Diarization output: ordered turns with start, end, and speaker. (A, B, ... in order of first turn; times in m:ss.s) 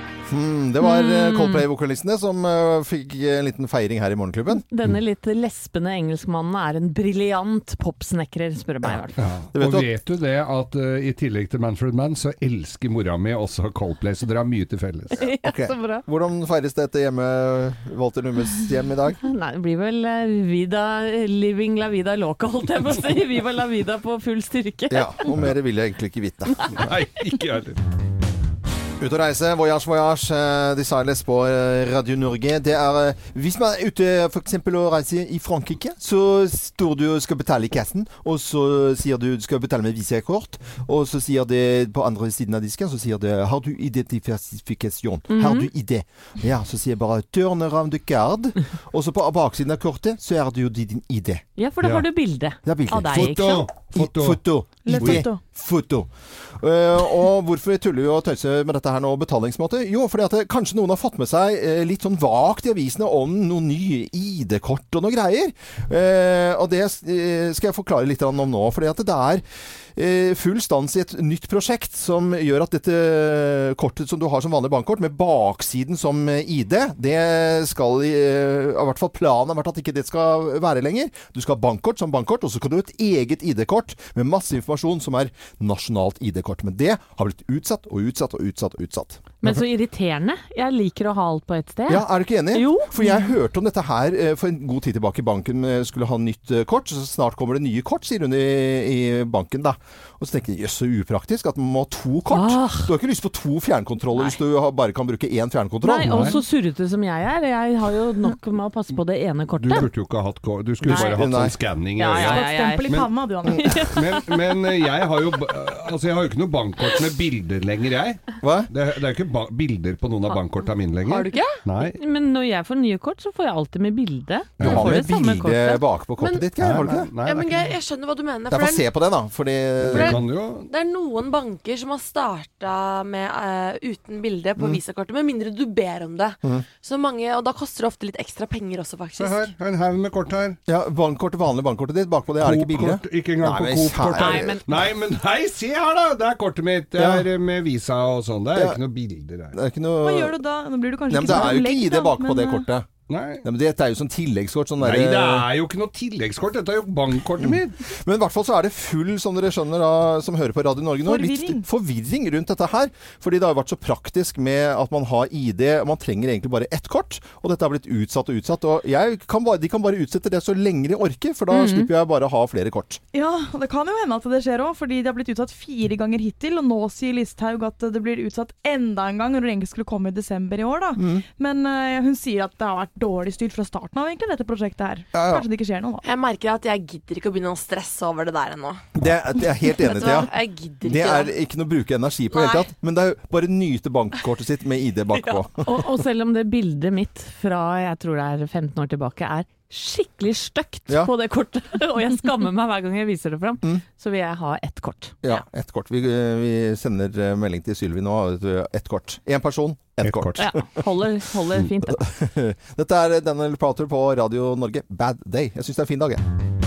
0:00.3-0:04.6 A
0:00.8-0:01.6 B
0:04.6-0:09.2 B
0:09.2-0:15.2 C
0:09.5-0:09.9 A
0:15.2-0:16.0 B
0:15.2-0:19.2 A
0:19.2-0:25.3 B
0:24.9-0:26.8 A
0:26.7-0:27.8 C
0:29.0-0:51.4 A
0:45.3-0:45.7 B
0:51.6-0:53.7 B
0:51.8-0:52.1 C
0:52.6-1:09.4 A
0:53.0-0:54.4 C
0:54.8-0:55.4 D
0:55.0-0:55.2 C
1:10.0-1:29.5 A
1:29.4-1:33.3 B
1:31.9-1:46.4 A
1:42.3-1:42.9 B
1:45.8-1:49.9 B
1:46.0-1:46.4 C
1:49.6-1:53.1 C
1:50.8-1:51.6 A
1:50.9-1:51.2 B
1:52.0-1:54.3 B
1:52.2-1:53.9 D
1:53.8-2:02.0 C
1:58.4-1:58.7 A
2:01.0-2:01.6 E
2:01.8-2:05.8 B
2:04.6-2:04.9 C
2:04.6-2:07.1 A
2:06.2-2:08.9 E
2:06.6-2:07.7 C
2:08.5-2:10.2 A
2:09.8-2:10.7 C
2:09.9-2:19.5 E
2:19.2-2:20.6 C
2:20.7-2:24.6 A
2:22.4-2:29.5 C
2:24.1-2:24.6 B
2:27.0-2:27.3 A
2:29.5-2:30.4 A
2:30.0-2:32.7 D
2:31.1-2:32.9 A
2:33.1-2:33.4 C
2:33.4-2:35.5 A
2:34.8-2:37.8 C
2:37.4-2:53.0 A
2:41.0-2:41.6 D
2:51.5-2:51.9 B
2:53.1-3:06.0 D
3:01.0-3:01.2 A
3:05.1-3:05.4 A
3:06.0-3:11.3 E
3:08.9-3:15.9 A
3:12.3-3:12.7 E
3:15.1-3:15.4 E
3:15.6-3:25.1 B
3:25.2-3:30.8 A
3:30.0-3:30.5 C
3:30.4-3:32.0 B
3:31.8-3:36.2 A